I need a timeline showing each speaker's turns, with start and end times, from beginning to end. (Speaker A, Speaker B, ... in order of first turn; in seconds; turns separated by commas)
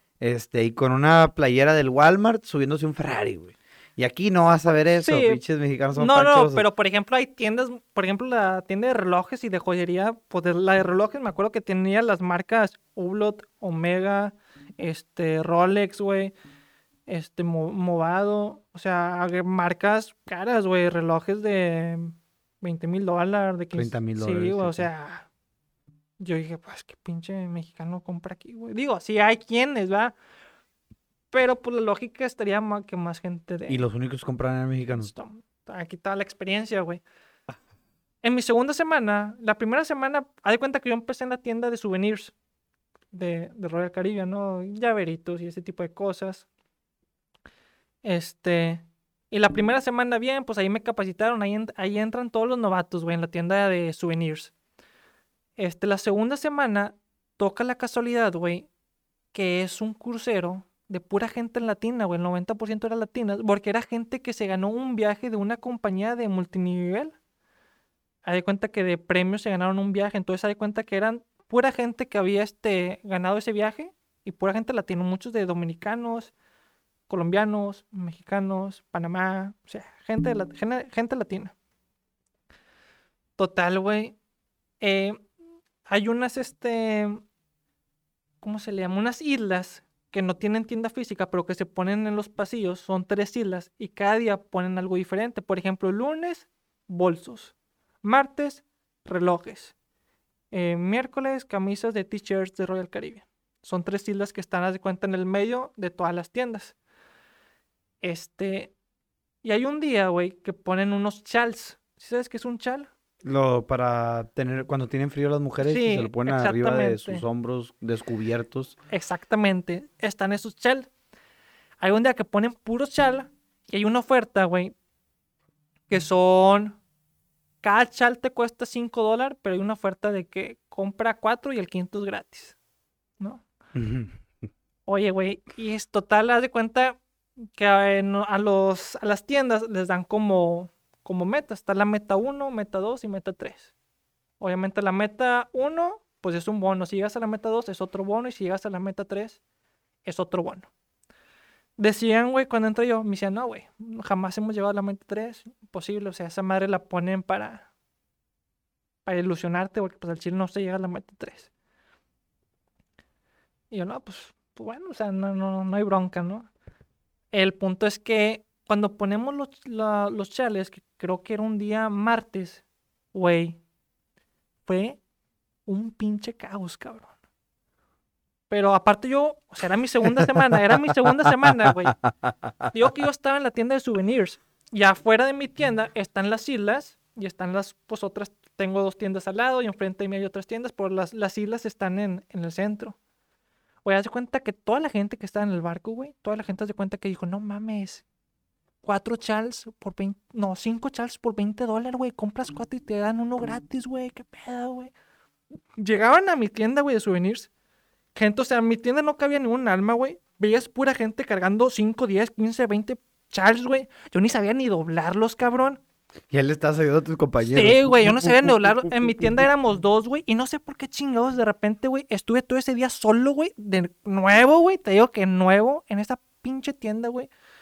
Speaker A: 0.2-6.6, Speaker B: 5.0-5.4, Speaker B: 6.0-16.3, Speaker B: 17.1-25.3, Speaker A: 23.7-24.9, Speaker B: 26.2-30.1, Speaker B: 31.3-33.8, Speaker A: 33.7-35.1, Speaker B: 34.9-37.0, Speaker B: 38.2-42.3, Speaker B: 43.1-46.5, Speaker B: 48.0-54.5, Speaker B: 55.6-58.7, Speaker B: 59.3-67.2, Speaker B: 68.2-76.3, Speaker B: 77.1-81.5, Speaker B: 83.4-84.2, Speaker B: 84.8-85.2, Speaker B: 85.9-87.2, Speaker B: 88.4-99.7, Speaker B: 100.5-106.7, Speaker B: 108.0-108.7, Speaker B: 109.4-112.9, Speaker A: 113.2-118.7, Speaker B: 115.6-117.2, Speaker B: 118.9-120.9, Speaker B: 121.8-124.7, Speaker B: 125.9-126.8, Speaker B: 127.6-132.6, Speaker A: 133.7-134.2, Speaker B: 134.9-137.0, Speaker B: 137.6-143.7, Speaker B: 144.4-149.4, Speaker B: 150.1-150.7, Speaker B: 151.8-157.7, Speaker B: 159.1-161.5, Speaker B: 163.7-166.5, Speaker B: 167.3-173.6, Speaker B: 174.7-175.0, Speaker B: 175.7-177.1, Speaker B: 178.5-182.0, Speaker B: 182.7-192.9, Speaker B: 193.8-198.0, Speaker B: 198.8-204.9, Speaker B: 205.7-207.5, Speaker B: 208.1-215.8, Speaker A: 216.3-219.5, Speaker B: 217.4-227.3